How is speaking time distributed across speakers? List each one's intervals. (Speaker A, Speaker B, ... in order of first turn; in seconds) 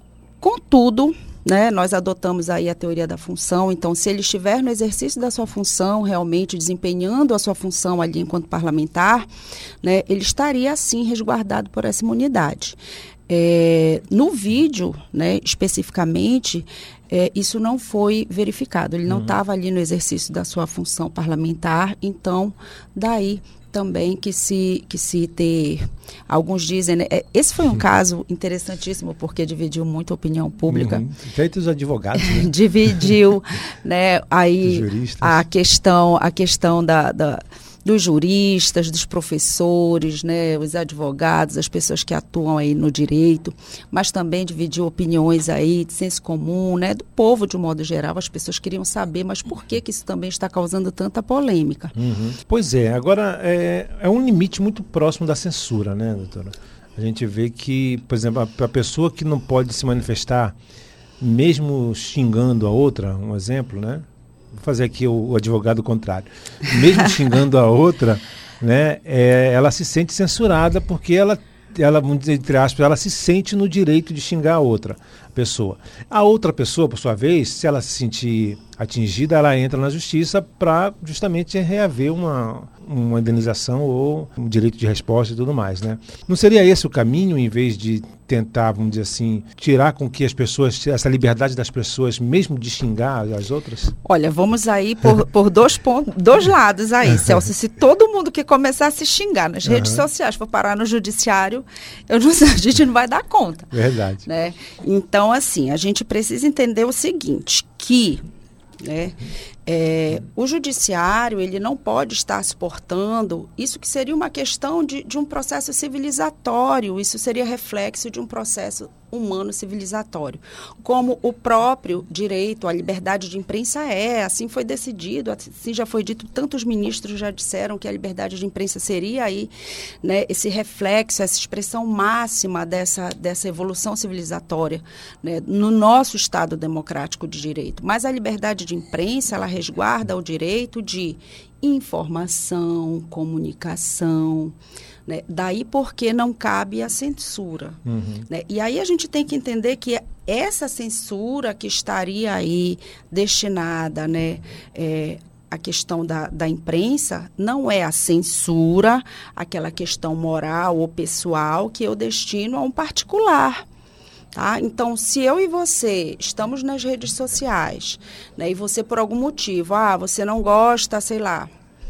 Speaker A: 0.4-9.3, 9.8-31.1, 32.2-52.0, 94.0-108.2, 108.8-129.5, 130.0-144.5, 145.1-163.6, 164.3-171.5
Speaker B: 19.1-19.4, 30.7-33.1, 34.6-35.4, 52.0-60.5, 61.2-93.9, 99.6-100.0, 103.7-104.2, 147.8-148.2